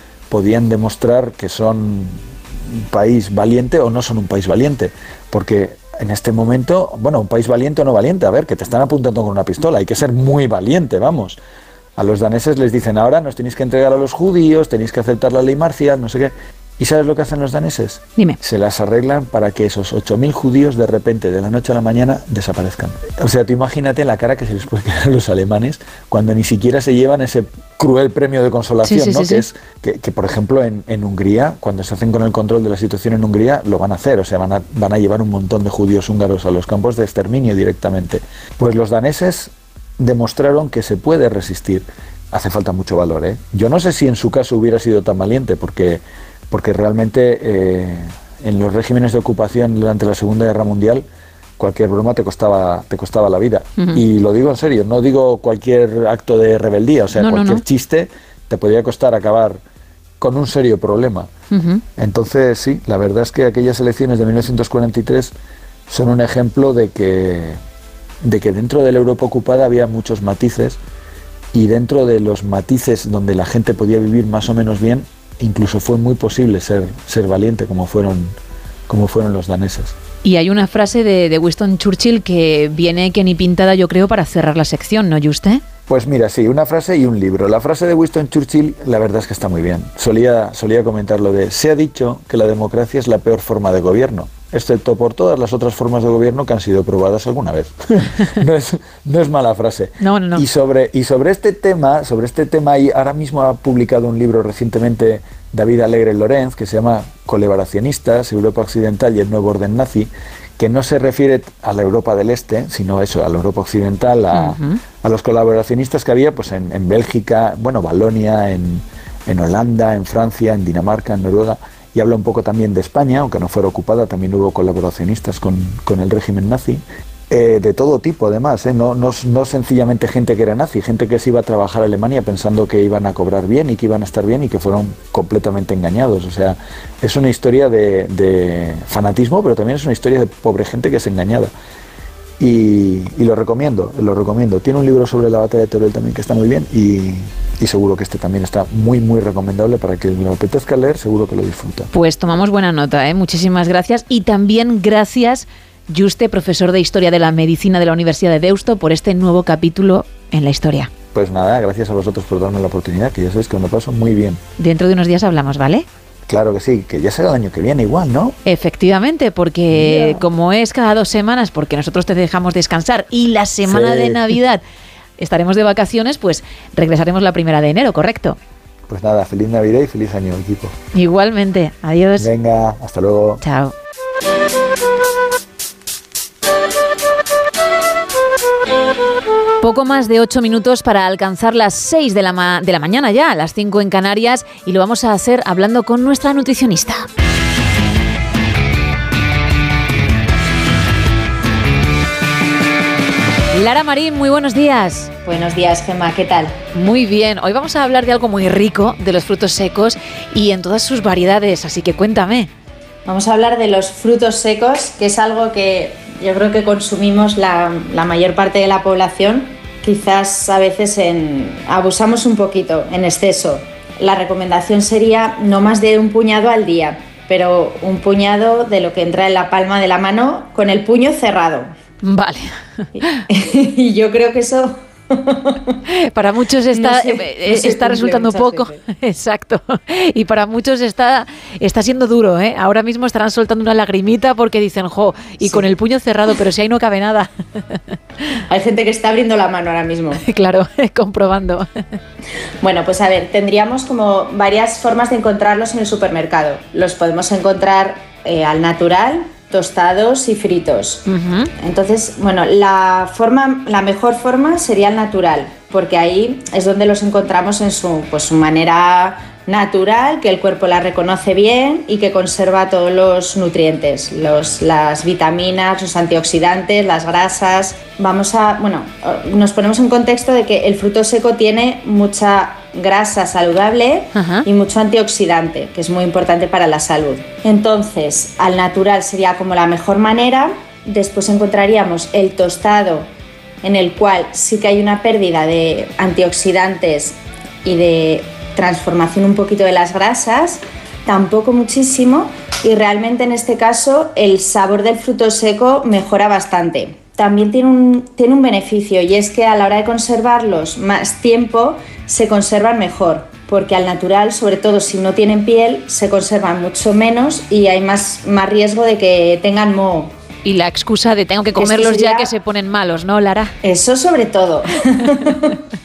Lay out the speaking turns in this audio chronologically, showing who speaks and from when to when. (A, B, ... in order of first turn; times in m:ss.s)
0:00.3-0:02.2 A
0:02.7-0:11.4 A
0:12.0-0:51.1 A
0:28.8-0:29.4 B
0:51.6-0:59.6 A
0:53.8-0:54.0 B
0:57.2-0:57.6 B
1:00.2-1:01.3 A
1:01.5-1:01.8 B
1:02.0-1:05.3 A
1:05.9-1:07.6 A
1:08.2-1:10.8 A
1:11.5-1:18.3 A
1:18.9-1:19.9 A
1:20.2-1:25.6 B
1:25.9-2:21.5 A
1:40.0-1:40.4 B
1:54.3-1:54.8 B
2:22.4-2:31.9 A
2:31.9-2:40.9 B
2:41.1-2:44.4 A
2:44.6-2:45.9 B
2:46.3-2:48.4 A
2:48.4-2:54.6 B
2:49.7-2:50.2 A
2:53.7-2:54.3 A
2:55.2-2:58.4 B
2:58.9-3:00.7 A
3:00.9-3:02.3 B
3:02.2-3:03.4 A
3:03.4-3:03.7 B
3:09.6-3:17.1 B
3:23.5-3:25.1 B
3:25.3-3:26.6 C
3:26.7-3:32.5 B
3:33.1-3:51.7 C
3:52.0-3:52.5 B
3:53.0-3:55.8 C
3:55.9-4:07.8 B
3:56.7-3:58.8 C
4:08.5-4:10.2 C
4:10.2-4:11.7 B
4:12.6-4:21.0 C
4:21.1-4:21.5 B
4:21.6-4:53.1 C
4:44.1-4:44.5 B
4:53.6-5:20.1 C
5:20.4-5:23.5 B
5:21.6-5:22.3 C
5:23.6-5:25.6 C